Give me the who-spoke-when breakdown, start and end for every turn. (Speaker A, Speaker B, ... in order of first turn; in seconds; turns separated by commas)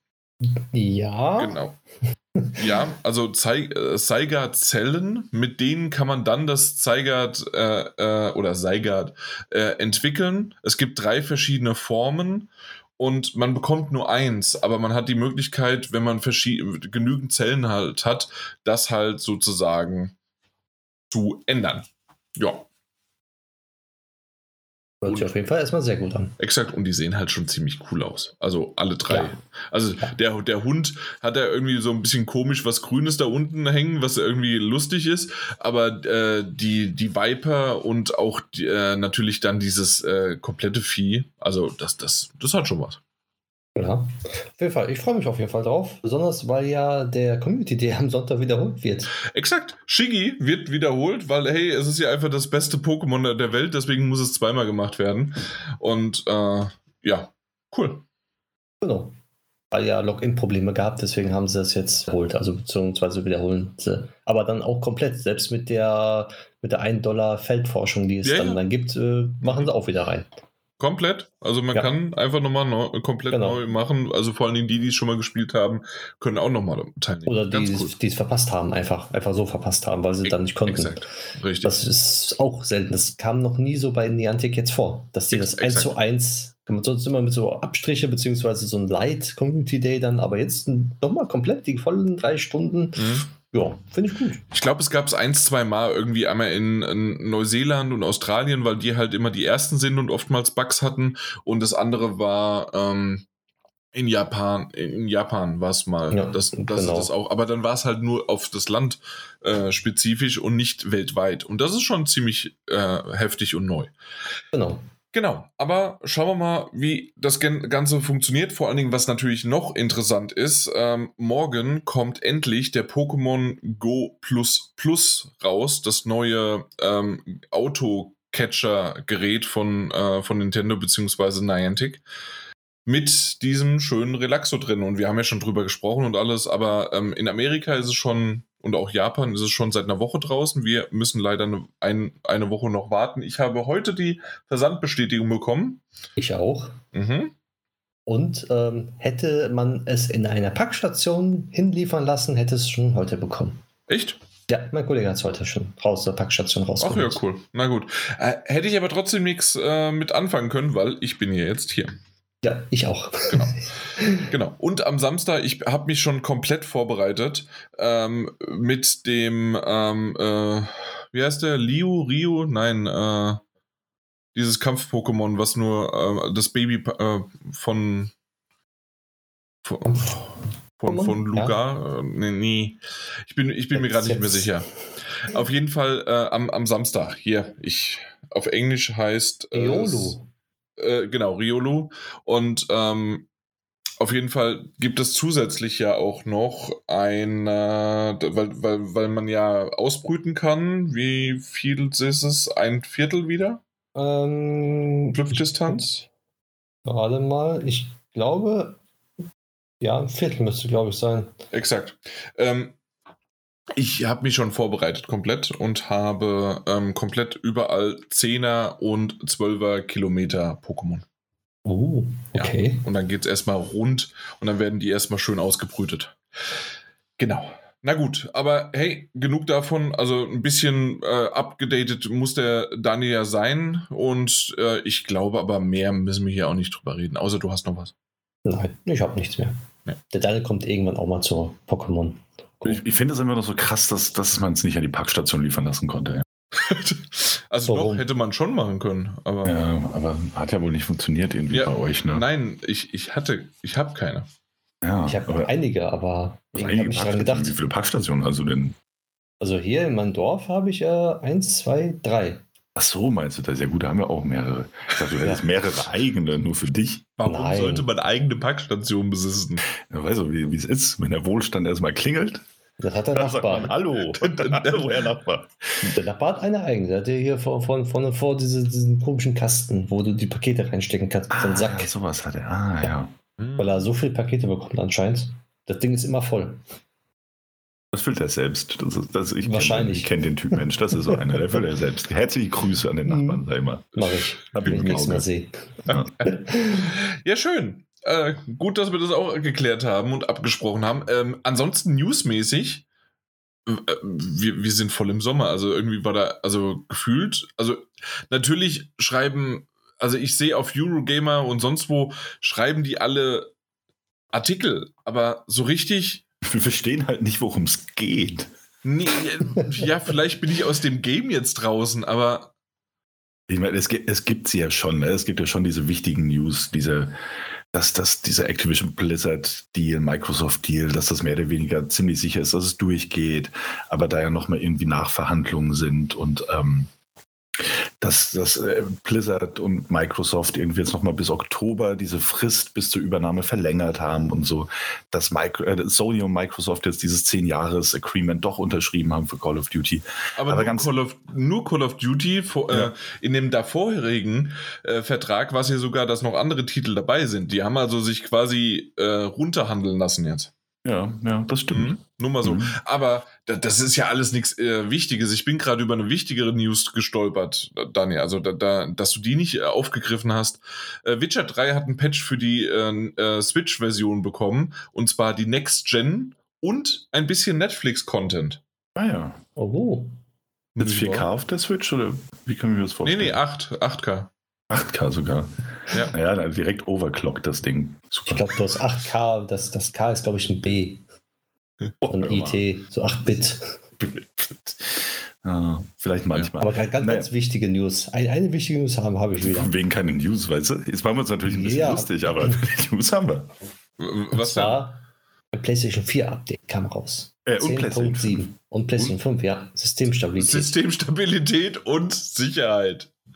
Speaker A: 0.4-1.6, Speaker B: 1.4-1.8, Speaker A: 2.4-2.7, Speaker B: 2.5-20.1, Speaker B: 21.1-21.9, Speaker B: 22.4-22.7, Speaker A: 25.0-26.3, Speaker B: 25.1-25.3, Speaker B: 26.4-43.0, Speaker A: 43.8-49.1, Speaker B: 49.2-58.0, Speaker A: 58.8-59.1, Speaker A: 59.7-70.3, Speaker B: 68.2-68.6, Speaker B: 69.4-69.7, Speaker B: 70.8-77.9, Speaker A: 73.3-73.6, Speaker A: 77.2-81.0, Speaker B: 80.2-81.8, Speaker A: 81.6-94.4, Speaker B: 85.3-85.9, Speaker B: 93.0-93.2, Speaker B: 94.5-103.2, Speaker B: 103.9-113.9, Speaker A: 106.1-107.1, Speaker A: 114.5-114.8, Speaker B: 115.1-132.0, Speaker B: 132.8-145.8, Speaker A: 146.2-146.8, Speaker B: 146.9-147.3, Speaker A: 148.1-153.6, Speaker B: 153.9-154.2, Speaker A: 154.5-157.2, Speaker B: 156.8-161.9, Speaker A: 162.4-164.3, Speaker B: 163.3-173.4, Speaker B: 174.3-178.1, Speaker B: 179.6-184.7, Speaker A: 180.9-181.6, Speaker A: 183.7-184.6, Speaker B: 185.2-190.2, Speaker A: 189.5-190.3, Speaker B: 190.8-193.3, Speaker B: 194.0-203.6, Speaker A: 203.9-205.8, Speaker B: 205.1-206.1, Speaker A: 206.8-208.8, Speaker A: 209.8-211.3, Speaker B: 211.5-212.8, Speaker B: 213.7-221.0, Speaker A: 221.6-222.8, Speaker B: 222.3-226.2, Speaker B: 227.2-237.9, Speaker A: 238.4-239.6, Speaker A: 240.1-242.8, Speaker C: 242.6-246.2, Speaker B: 246.5-249.6, Speaker A: 247.7-248.1, Speaker C: 249.4-252.2, Speaker B: 251.5-254.3, Speaker C: 254.8-255.5, Speaker A: 255.1-257.6, Speaker C: 256.5-258.8, Speaker A: 259.4-262.4, Speaker C: 262.8-267.1, Speaker B: 267.2-269.6, Speaker A: 267.2-267.9, Speaker C: 269.8-272.4, Speaker A: 272.8-273.7, Speaker C: 273.1-275.9, Speaker B: 274.1-275.1, Speaker A: 275.8-281.9, Speaker C: 281.3-283.1, Speaker B: 283.4-283.8, Speaker A: 283.6-286.6, Speaker C: 287.9-295.2, Speaker A: 289.4-291.4, Speaker A: 293.1-296.9, Speaker C: 295.9-296.1, Speaker B: 296.7-302.8, Speaker B: 303.6-313.5, Speaker B: 314.3-316.2, Speaker C: 316.4-318.5, Speaker B: 318.8-322.5, Speaker C: 323.5-327.1, Speaker C: 327.7-336.9, Speaker C: 337.6-350.9, Speaker B: 350.4-360.5, Speaker C: 360.8-362.8, Speaker B: 361.7-378.6, Speaker C: 378.9-379.4, Speaker A: 379.6-380.1, Speaker B: 380.7-381.3, Speaker C: 380.8-383.4, Speaker B: 383.0-384.3, Speaker C: 384.7-388.6, Speaker A: 388.3-391.0, Speaker C: 392.0-392.6, Speaker A: 392.1-393.8, Speaker C: 394.0-397.3, Speaker A: 396.6-399.7, Speaker C: 399.4-403.5, Speaker A: 401.4-402.6, Speaker B: 404.0-404.8, Speaker A: 404.3-410.7, Speaker C: 407.4-409.1, Speaker B: 410.4-413.1